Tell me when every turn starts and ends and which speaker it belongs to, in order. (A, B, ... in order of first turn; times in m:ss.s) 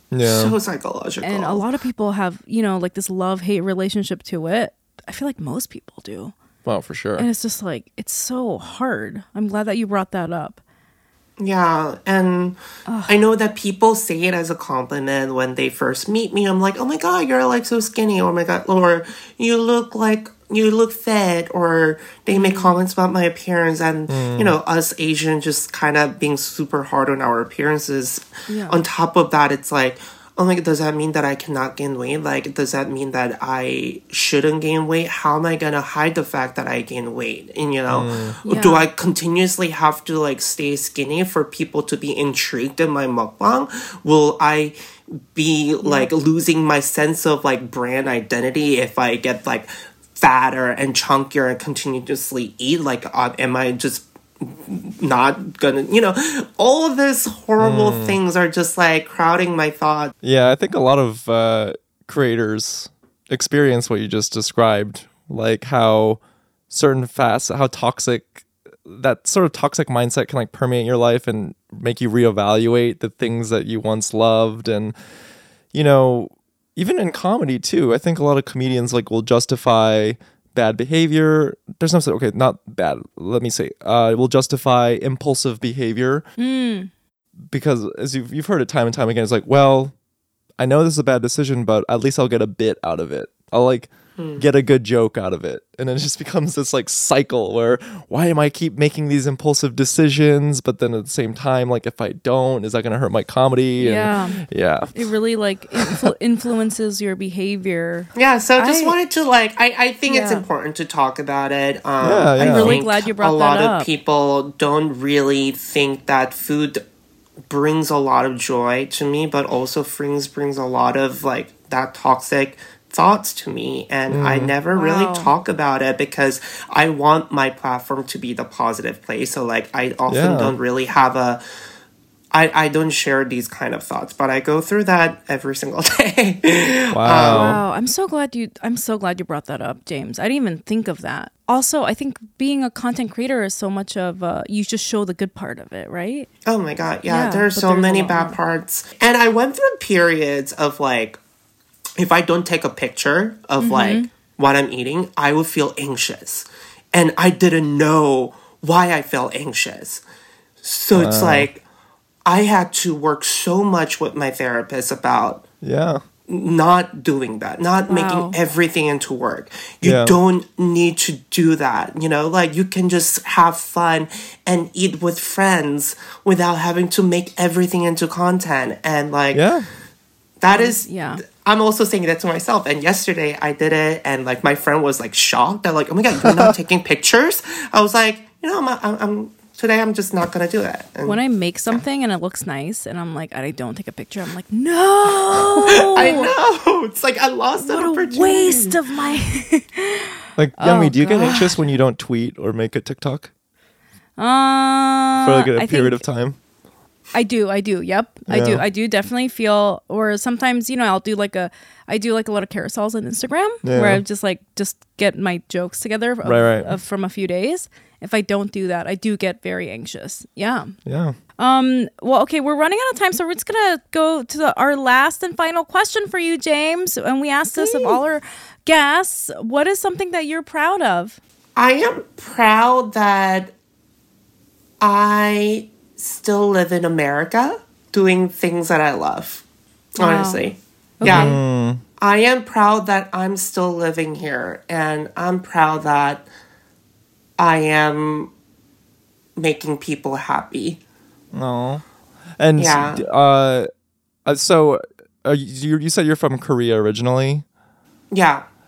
0:00.1-0:00.5 A
0:00.2-0:01.6 B
0:01.2-0:06.3 C
0:06.6-0:07.3 A
0:07.2-0:10.6 C
0:11.4-1:00.1 B
0:12.9-0:13.2 C
0:22.3-0:22.7 C
0:24.1-0:24.6 A
0:28.5-0:28.8 C
0:37.9-0:38.3 A
0:38.4-0:38.8 C
0:45.8-0:46.1 C
0:57.6-0:58.2 A
1:00.2-1:14.9 A
1:15.7-1:26.2 A
1:26.4-1:26.9 C
1:27.5-1:29.9 A
1:30.6-1:44.9 A
1:34.2-1:34.4 B
1:43.8-1:48.9 C
1:45.8-1:46.1 A
1:48.2-1:56.8 B
1:50.1-1:50.4 C
1:52.0-1:52.8 A
1:52.4-1:53.9 C
1:57.5-2:11.4 B
2:04.1-2:04.5 A
2:04.7-2:05.3 C
2:10.1-2:10.5 A
2:12.3-2:17.6 B
2:16.9-2:17.6 A
2:17.3-2:26.3 C
2:26.4-2:31.2 B
2:27.1-2:28.4 C
2:32.0-2:40.0 B
2:33.6-2:34.1 C
2:40.6-2:41.6 B
2:40.9-2:41.5 A
2:42.2-2:45.4 B
2:45.6-2:46.0 A
2:46.3-2:59.4 B
2:47.9-2:48.4 C
2:49.8-2:50.2 A
2:59.3-2:59.7 A
3:00.4-3:11.8 B
3:00.5-3:01.2 C
3:06.2-3:06.5 A
3:11.0-3:16.3 C
3:15.6-3:18.8 B
3:17.6-3:21.6 C
3:20.4-3:23.3 A
3:24.2-3:25.9 C
3:25.2-3:26.4 A
3:27.1-3:40.8 C
3:28.3-3:28.6 A
3:33.6-3:34.0 A
3:36.2-3:36.8 A
3:40.8-3:41.2 A
3:41.4-3:51.2 C
3:47.6-3:48.0 B
3:51.6-3:53.5 B
3:54.8-3:59.4 B
4:00.0-4:00.4 C
4:00.0-4:01.4 B
4:01.0-4:01.4 C
4:01.0-4:01.8 A
4:02.0-4:06.2 B
4:07.4-4:08.3 B
4:09.4-4:10.8 B
4:11.3-4:11.8 A
4:12.4-4:13.7 A
4:12.6-4:13.0 B
4:14.2-4:17.4 A
4:18.1-4:18.4 B